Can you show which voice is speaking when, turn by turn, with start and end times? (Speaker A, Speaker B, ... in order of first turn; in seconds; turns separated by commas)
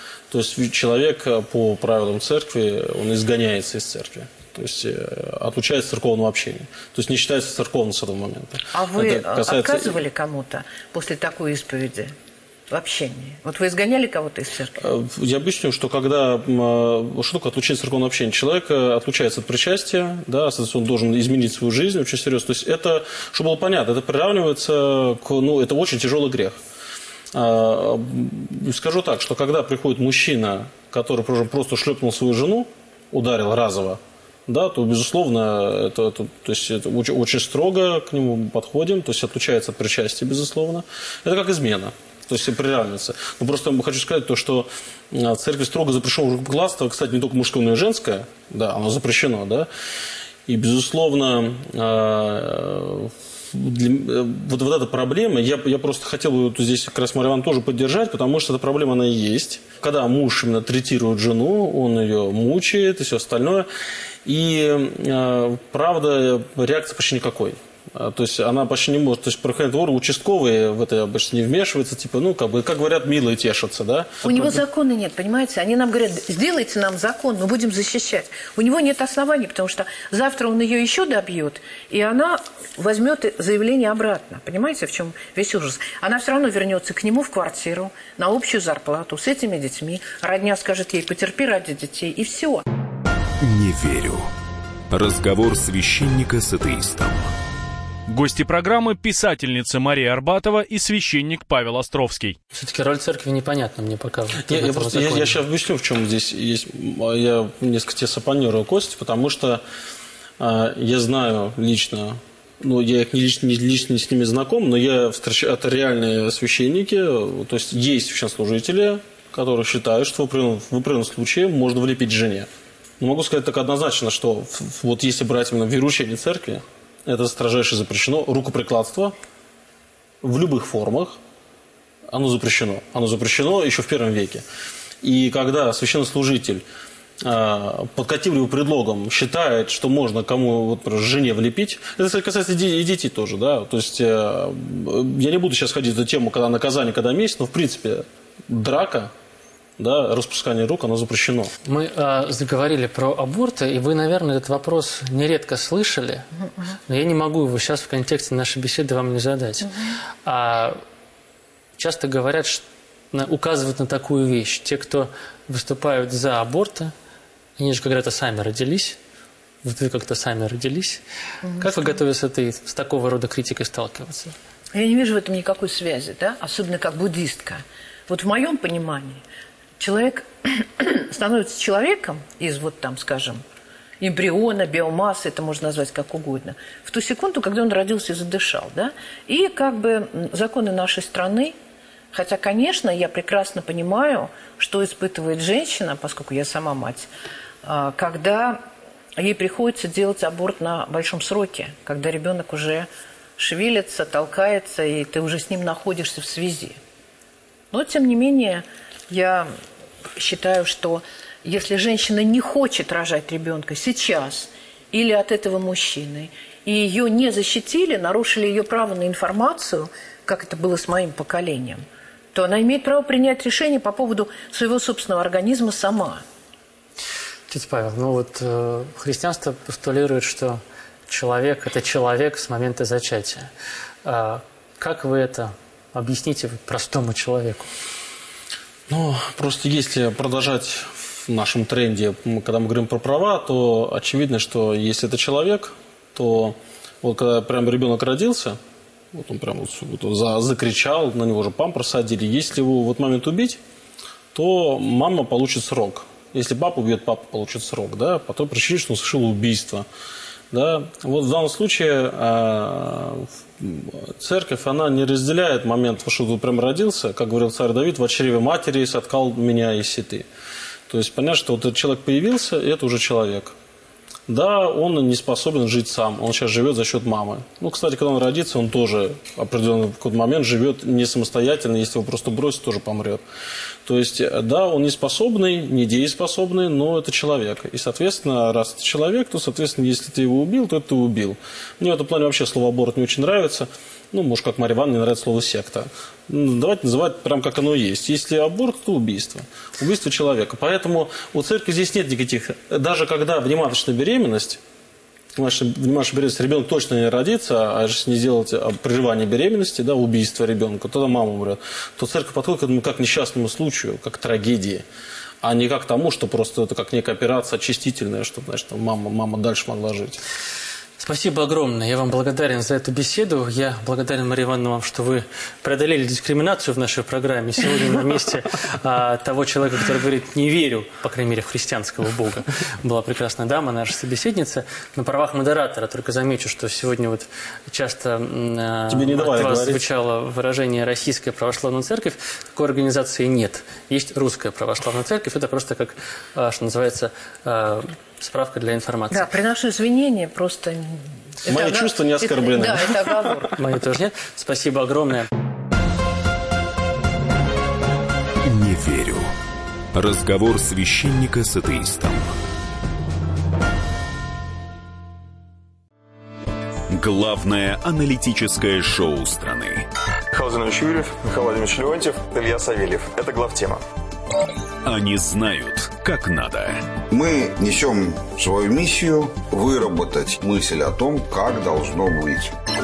Speaker A: 0.3-10.0, Speaker B: 8.7-12.1, Speaker B: 12.7-14.8, Speaker A: 14.8-26.6, Speaker A: 27.3-49.7, Speaker A: 50.5-63.7, Speaker A: 64.2-74.6, Speaker B: 74.2-92.6, Speaker C: 93.4-94.3, Speaker C: 94.9-97.3, Speaker D: 98.1-102.3, Speaker E: 102.5-105.3, Speaker A: 104.5-109.6, Speaker A: 110.4-122.5, Speaker A: 123.0-129.1, Speaker A: 130.2-131.2, Speaker A: 132.1-134.4, Speaker A: 135.0-136.6, Speaker A: 137.2-149.1, Speaker A: 149.8-151.5, Speaker E: 151.6-160.8, Speaker E: 161.8-166.9, Speaker E: 167.6-169.0, Speaker E: 169.6-171.0, Speaker B: 171.4-171.9, Speaker E: 171.6-174.3, Speaker B: 174.7-179.2, Speaker B: 179.8-183.4, Speaker B: 184.0-191.5, Speaker B: 192.1-197.1, Speaker B: 197.6-198.6, Speaker B: 199.2-206.8, Speaker B: 207.7-209.5, Speaker B: 210.2-221.8, Speaker B: 222.3-226.2, Speaker E: 227.5-233.5, Speaker E: 234.0-237.7, Speaker A: 238.9-248.6, Speaker A: 249.1-253.6, Speaker A: 254.3-259.9, Speaker A: 260.5-270.3, Speaker A: 270.9-273.5, Speaker A: 274.3-283.2, Speaker A: 283.8-304.6, Speaker A: 305.4-314.8, Speaker A: 315.4-320.2, Speaker E: 321.0-349.2, Speaker A: 338.9-339.8, Speaker B: 349.1-353.5, Speaker A: 351.4-353.4, Speaker E: 353.6-355.3, Speaker C: 358.4-359.3, Speaker C: 359.9-362.3, Speaker C: 366.9-369.9, Speaker F: 370.3-373.8, Speaker C: 374.8-376.9, Speaker G: 377.1-382.5